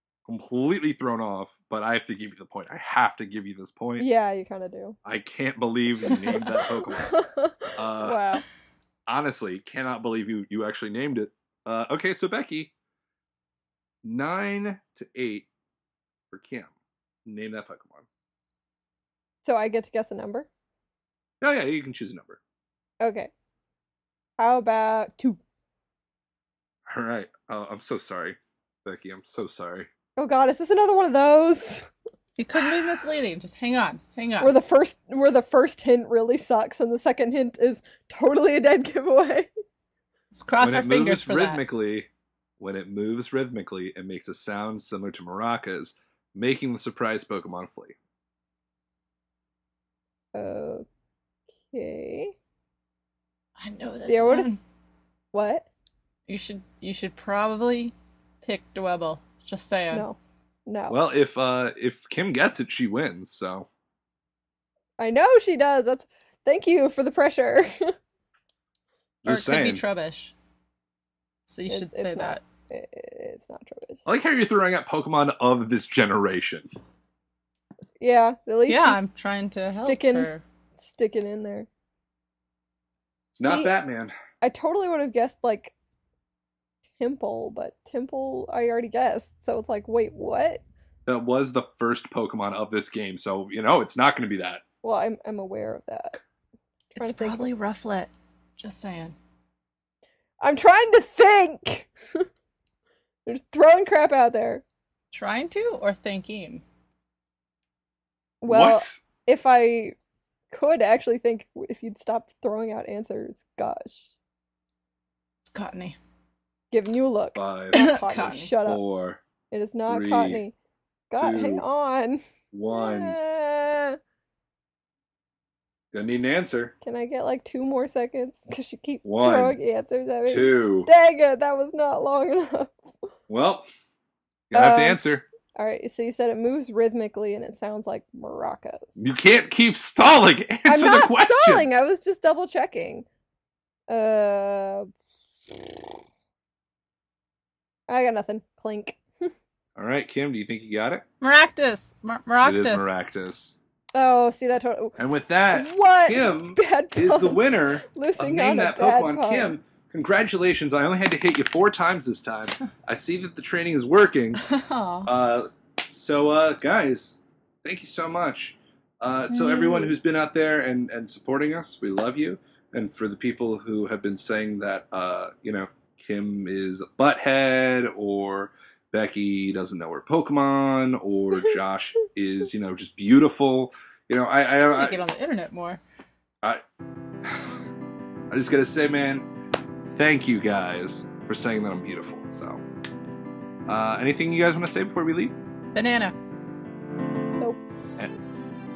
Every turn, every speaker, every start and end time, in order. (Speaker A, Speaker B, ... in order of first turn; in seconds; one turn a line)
Speaker A: 0.2-4.1
Speaker B: 4.0-5.0
Speaker A: 5.0-7.2
Speaker B: 6.1-8.4
Speaker A: 7.8-8.3
Speaker A: 9.1-12.7
Speaker A: 14.0-15.5
Speaker A: 16.3-16.7
Speaker A: 17.2-18.0
Speaker B: 19.4-20.5
Speaker A: 21.4-22.4
Speaker B: 23.0-23.3
Speaker B: 24.4-25.4
Speaker A: 26.9-29.9
Speaker B: 30.2-31.9
Speaker C: 32.4-34.5
Speaker B: 34.4-39.5
Speaker C: 40.3-41.6
Speaker A: 40.6-42.1
Speaker A: 42.6-47.9
Speaker B: 50.3-50.9
Speaker B: 51.7-52.3
Speaker C: 53.6-54.6
Speaker B: 54.0-54.6
Speaker B: 55.3-55.7
Speaker C: 56.3-60.0
Speaker B: 59.9-61.0
Speaker A: 60.9-63.7
Speaker B: 65.0-67.9
Speaker A: 69.2-69.8
Speaker C: 69.2-70.3
Speaker C: 71.5-72.4
Speaker B: 71.7-74.0
Speaker A: 74.0-76.7
Speaker B: 78.0-79.1
Speaker C: 78.7-80.4
Speaker B: 79.7-81.7
Speaker B: 83.4-83.7
Speaker A: 83.4-84.1
Speaker B: 84.4-85.7
Speaker B: 87.0-90.6
Speaker A: 91.0-94.6
Speaker B: 94.8-96.2
Speaker B: 96.9-97.5
Speaker C: 97.0-99.2
Speaker B: 100.4-102.2
Speaker B: 103.2-104.6
Speaker C: 105.1-106.6
Speaker B: 108.4-109.9
Speaker A: 108.5-109.0
Speaker B: 110.5-114.1
Speaker C: 115.4-116.0
Speaker B: 116.7-118.8
Speaker A: 117.3-117.8
Speaker C: 117.7-118.6
Speaker A: 118.5-119.2
Speaker B: 119.5-120.5
Speaker A: 119.9-120.4
Speaker B: 121.1-124.0
Speaker A: 121.2-121.7
Speaker A: 122.5-123.2
Speaker A: 125.9-126.7
Speaker B: 126.8-132.8
Speaker A: 129.0-129.6
Speaker A: 130.2-130.9
Speaker A: 133.3-133.7
Speaker A: 134.5-135.2
Speaker B: 134.5-135.0
Speaker B: 135.5-139.0
Speaker A: 139.0-141.7
Speaker B: 140.7-143.1
Speaker B: 143.9-144.9
Speaker B: 147.9-149.3
Speaker A: 149.8-151.0
Speaker C: 151.2-152.9
Speaker A: 152.4-153.5
Speaker B: 153.9-154.9
Speaker A: 155.0-164.4
Speaker B: 155.5-159.6
Speaker C: 164.4-165.1
Speaker A: 165.1-185.0
Speaker B: 169.4-169.9
Speaker C: 184.6-185.8
Speaker A: 187.3-187.5
Speaker A: 188.3-189.2
Speaker A: 189.9-192.6
Speaker A: 193.7-195.3
Speaker C: 195.7-196.1